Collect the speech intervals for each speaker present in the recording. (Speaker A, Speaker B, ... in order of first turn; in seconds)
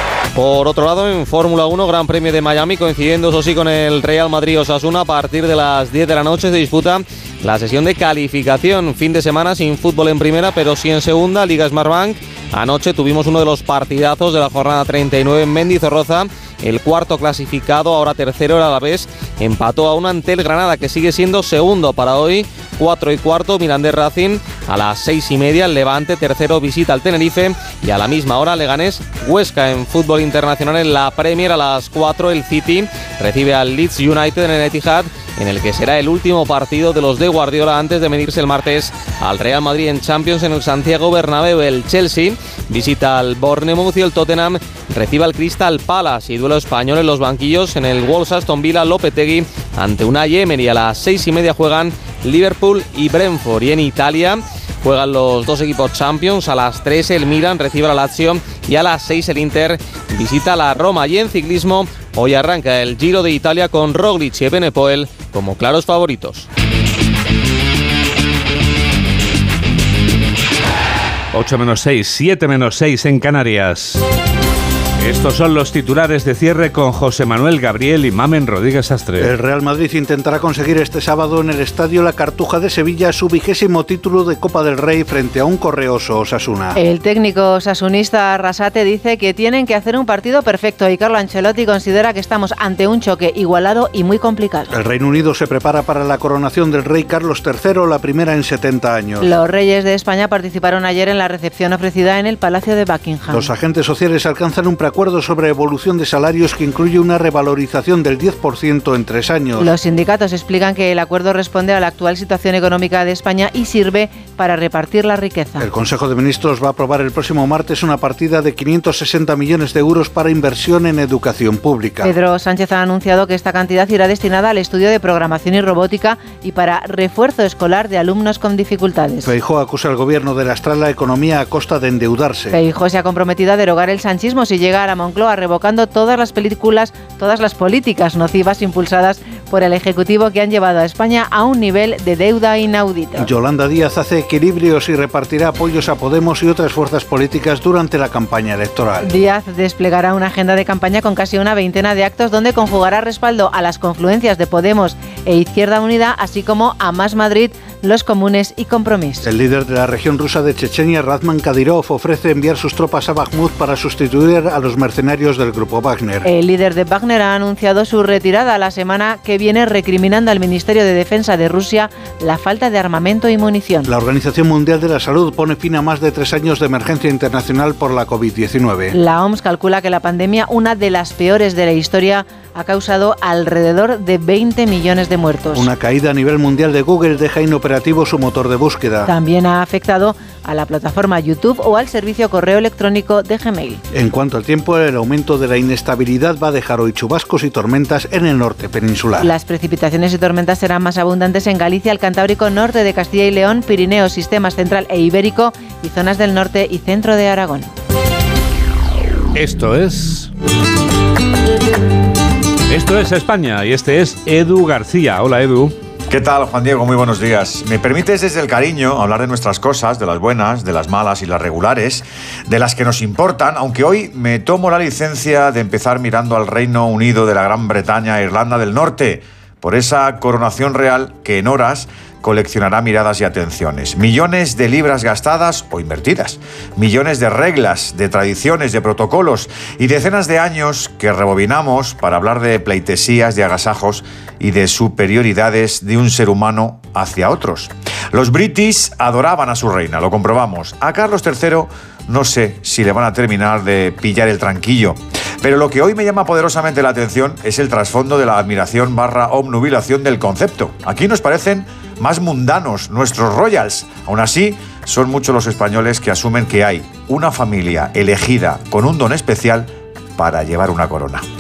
Speaker A: 0.3-66.5
Speaker B: 71.3-74.0, 75.0-79.3, 209.3-210.3, 212.7-215.7
Speaker C: 79.2-86.8, 94.7-99.3, 103.3-109.7, 115.6-122.1, 129.2-132.5, 143.2-149.1, 159.2-166.3, 173.9-178.9, 185.5-189.1, 193.9-199.3
Speaker D: 86.8-94.7, 99.2-103.5, 109.6-115.7, 122.0-129.3, 132.5-143.3, 149.1-159.2, 166.2-173.9, 178.9-185.7, 189.1-193.8, 199.2-207.7
Speaker E: 216.1-271.2